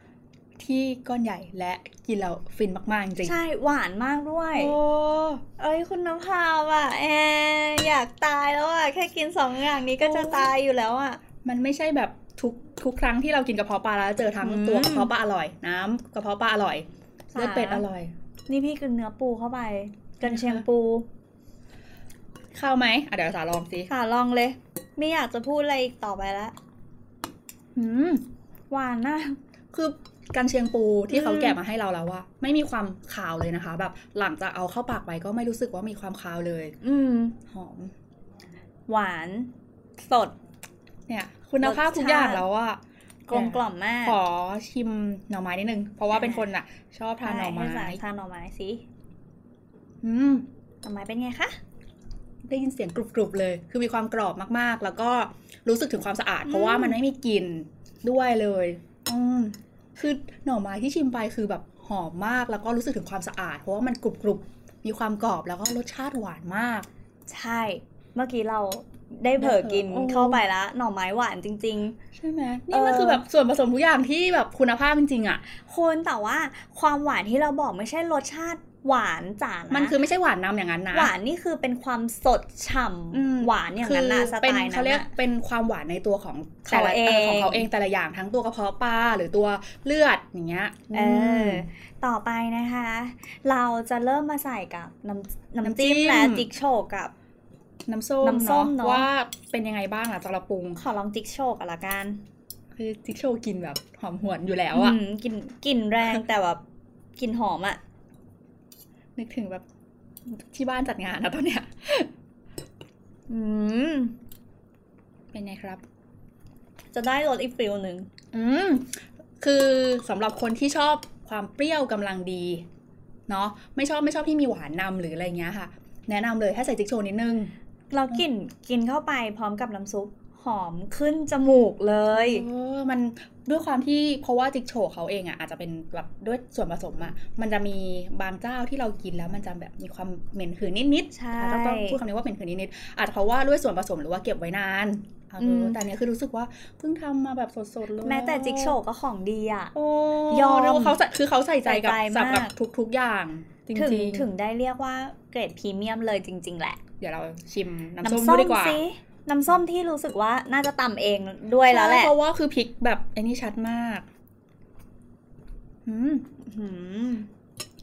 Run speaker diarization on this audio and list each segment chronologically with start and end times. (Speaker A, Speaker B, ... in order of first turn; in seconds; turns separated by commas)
Speaker A: 0.6-3.4, Speaker B: 3.2-4.8, Speaker A: 4.5-5.4, Speaker B: 5.6-11.2, Speaker A: 10.0-10.5, Speaker A: 11.4-18.1, Speaker B: 14.4-15.1, Speaker B: 17.3-17.9, Speaker B: 18.5-21.1, Speaker A: 20.2-20.6, Speaker A: 22.5-23.9, Speaker B: 23.9-26.6, Speaker A: 27.8-28.2, Speaker B: 28.7-29.4, Speaker A: 29.7-36.8, Speaker B: 31.1-31.6, Speaker B: 36.8-37.4, Speaker A: 37.5-37.9, Speaker B: 38.9-40.4, Speaker A: 41.1-48.0, Speaker B: 41.6-42.5, Speaker B: 43.3-44.2, Speaker B: 46.1-46.5, Speaker B: 47.2-48.8, Speaker A: 50.0-50.5, Speaker B: 50.8-51.6, Speaker A: 52.5-66.9, Speaker B: 56.5-57.0, Speaker B: 67.3-72.0, Speaker A: 69.4-70.4, Speaker A: 72.1-75.4, Speaker B: 72.7-73.2, Speaker B: 75.6-80.0, Speaker A: 79.7-81.1, Speaker B: 80.9-85.1, Speaker A: 83.1-91.7, Speaker B: 86.7-87.7, Speaker B: 90.9-97.1, Speaker A: 95.6-96.5, Speaker A: 97.9-100.8, Speaker B: 98.2-99.1, Speaker B: 100.8-102.2, Speaker A: 102.8-105.0, Speaker B: 104.7-106.6, Speaker B: 107.2-107.8, Speaker A: 109.2-109.7, Speaker A: 110.3-112.1, Speaker B: 113.3-114.2, Speaker A: 115.3-115.8, Speaker B: 116.9-118.1, Speaker A: 118.3-122.7, Speaker A: 123.3-127.5, Speaker B: 127.9-132.5, Speaker A: 132.1-148.8, Speaker B: 141.1-142.0, Speaker B: 145.4-145.8, Speaker B: 148.0-149.8, Speaker A: 149.8-154.3, Speaker B: 150.3-151.0, Speaker B: 151.6-152.5, Speaker B: 153.7-156.8, Speaker A: 157.0-158.8, Speaker B: 158.0-162.2, Speaker A: 161.7-164.1, Speaker A: 165.9-166.2, Speaker B: 166.4-167.3